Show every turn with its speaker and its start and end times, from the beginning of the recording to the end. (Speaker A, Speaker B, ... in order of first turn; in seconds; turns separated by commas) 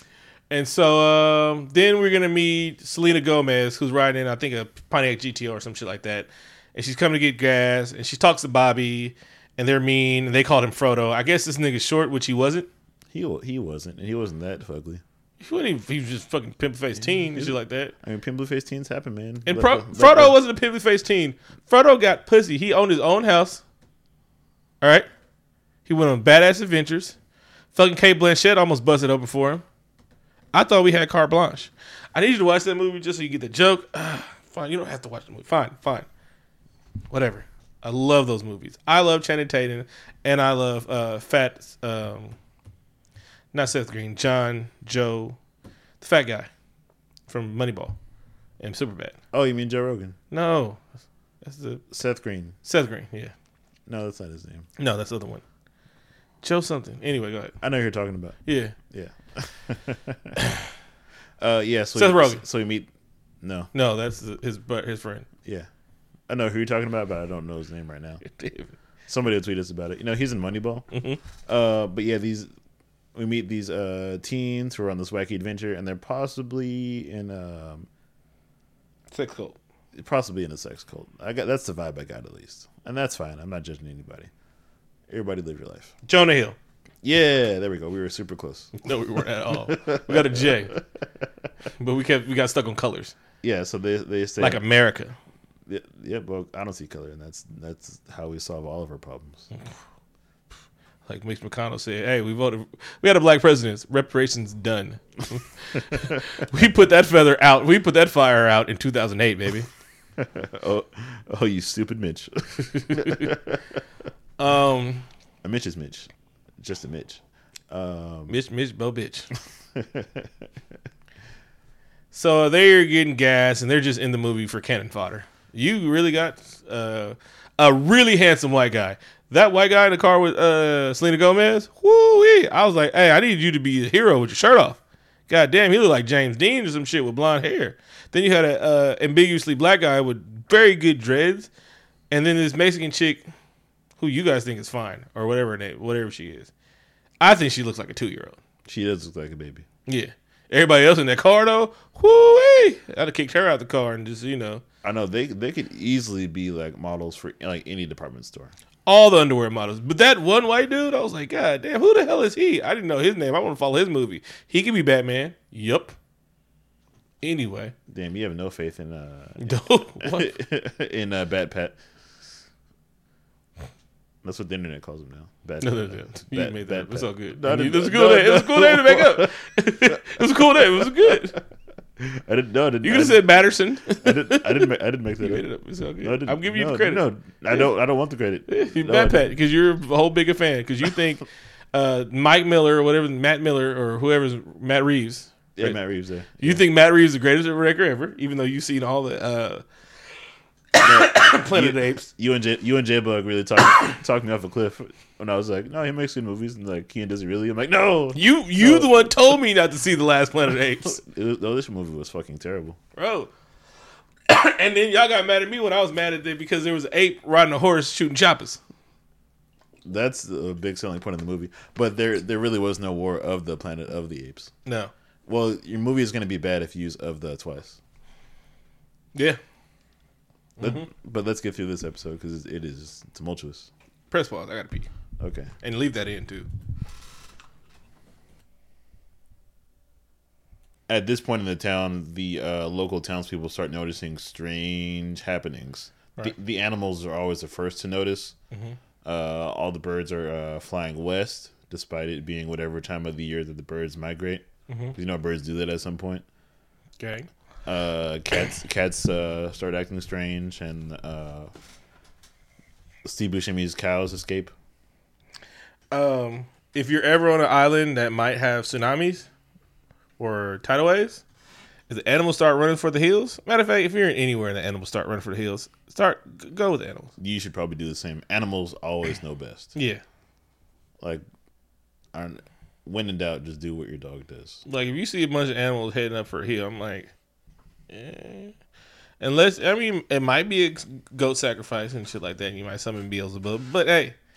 Speaker A: 0.5-12.7, Speaker B: 13.1-15.0, Speaker A: 15.4-17.9, Speaker B: 17.3-20.4, Speaker A: 19.4-23.6, Speaker A: 24.8-25.1, Speaker A: 25.9-27.1, Speaker A: 27.7-29.6, Speaker A: 30.5-36.1, Speaker A: 37.1-42.4, Speaker A: 43.5-45.4, Speaker A: 46.0-46.5, Speaker A: 47.3-48.0, Speaker A: 48.6-49.2, Speaker B: 49.3-50.2, Speaker A: 50.3-50.8, Speaker A: 51.4-51.9, Speaker B: 51.9-52.6, Speaker A: 52.6-53.3, Speaker B: 53.9-54.7, Speaker A: 54.8-55.4, Speaker A: 56.4-57.6, Speaker B: 57.6-60.4, Speaker A: 58.5-58.8, Speaker B: 61.4-62.9, Speaker A: 62.0-62.4, Speaker B: 63.4-63.7, Speaker A: 63.7-65.3, Speaker B: 66.3-68.2, Speaker A: 68.3-68.7, Speaker B: 69.1-70.9, Speaker A: 70.9-71.2, Speaker B: 71.5-72.5, Speaker B: 73.1-77.9, Speaker A: 79.1-79.6, Speaker B: 79.9-84.3, Speaker B: 85.1-85.9, Speaker A: 86.0-86.6, Speaker B: 87.0-88.8, Speaker A: 88.8-90.8, Speaker B: 89.5-90.8, Speaker A: 91.8-93.1, Speaker B: 93.4-94.6, Speaker A: 94.4-95.2, Speaker B: 95.7-99.5, Speaker A: 101.1-109.7, Speaker B: 110.2-113.6, Speaker A: 112.9-113.2, Speaker A: 114.4-115.1, Speaker B: 115.4-116.1, Speaker B: 116.6-118.4, Speaker A: 118.3-119.3, Speaker B: 119.8-120.3, Speaker A: 122.1-141.5, Speaker A: 142.1-143.3, Speaker A: 144.0-146.5, Speaker A: 147.2-148.4, Speaker B: 148.7-149.6, Speaker A: 149.9-154.6, Speaker B: 154.8-158.5, Speaker A: 158.9-165.9, Speaker A: 167.2-167.7, Speaker B: 167.9-171.8, Speaker A: 169.4-170.3, Speaker B: 174.2-179.4, Speaker A: 175.6-181.4, Speaker B: 182.0-183.3, Speaker A: 182.8-187.7, Speaker B: 184.0-185.4, Speaker B: 186.0-189.2, Speaker A: 188.5-195.8, Speaker B: 195.6-196.6, Speaker A: 196.4-199.6, Speaker A: 200.8-202.1, Speaker B: 200.8-209.1, Speaker A: 208.1-211.0, Speaker B: 210.8-212.8, Speaker A: 212.9-213.3, Speaker A: 214.3-218.6, Speaker B: 219.8-224.5, Speaker A: 224.6-224.9, Speaker B: 225.3-227.8, Speaker A: 229.1-229.4, Speaker A: 230.6-230.9, Speaker B: 230.6-233.7, Speaker A: 234.1-234.9, Speaker B: 235.2-235.5, Speaker A: 235.6-236.5, Speaker B: 240.9-248.4, Speaker A: 248.5-248.8, Speaker B: 249.0-256.2, Speaker A: 254.7-254.9, Speaker A: 257.0-257.3, Speaker B: 257.6-261.5, Speaker B: 263.1-264.5, Speaker A: 265.9-269.3, Speaker A: 270.2-271.2, Speaker A: 271.9-277.1, Speaker B: 277.2-279.8, Speaker A: 279.8-280.0, Speaker B: 282.1-284.6, Speaker A: 284.6-287.1, Speaker A: 287.9-288.6, Speaker A: 289.2-294.1